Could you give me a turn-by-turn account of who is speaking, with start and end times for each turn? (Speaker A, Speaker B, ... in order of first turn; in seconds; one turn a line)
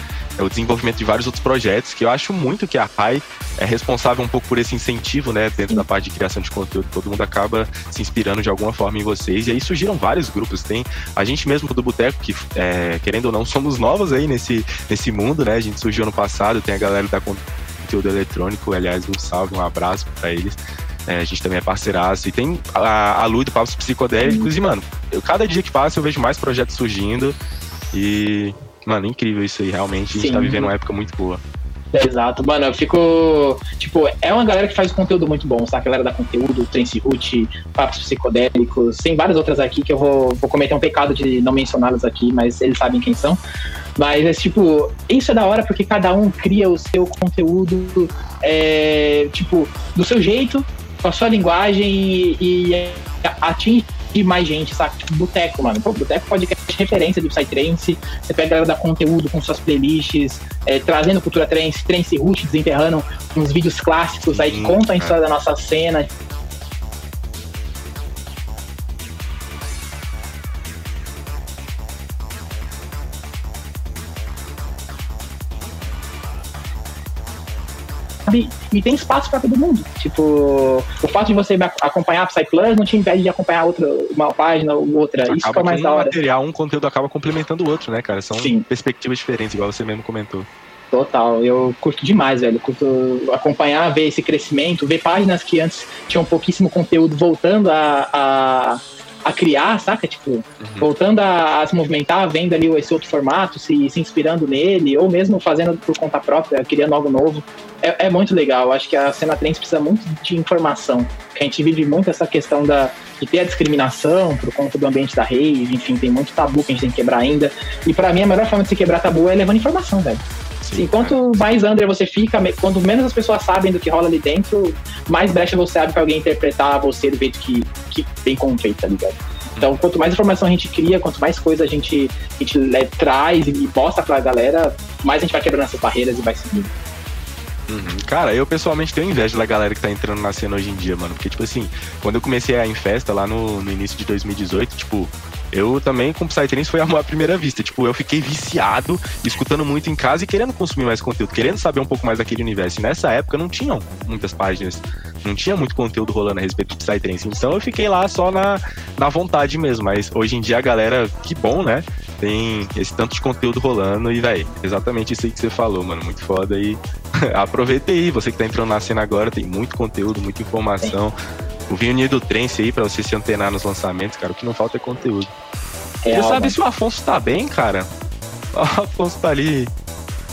Speaker A: 0.4-27.4
Speaker B: 24.2-24.5
Speaker A: 27.9-31.4
Speaker B: 30.1-30.7
Speaker B: 31.9-43.4
Speaker B: 44.0-66.1
Speaker A: 64.3-65.1
Speaker B: 78.3-86.1
Speaker A: 85.2-90.5
Speaker B: 88.3-88.6
Speaker B: 90.9-120.2
Speaker A: 100.6-100.9
Speaker A: 120.6-121.2
Speaker B: 120.7-136.7
Speaker A: 137.7-171.2
Speaker A: 171.7-175.3
Speaker B: 176.0-176.6
Speaker A: 176.1-177.9
Speaker A: 178.5-179.7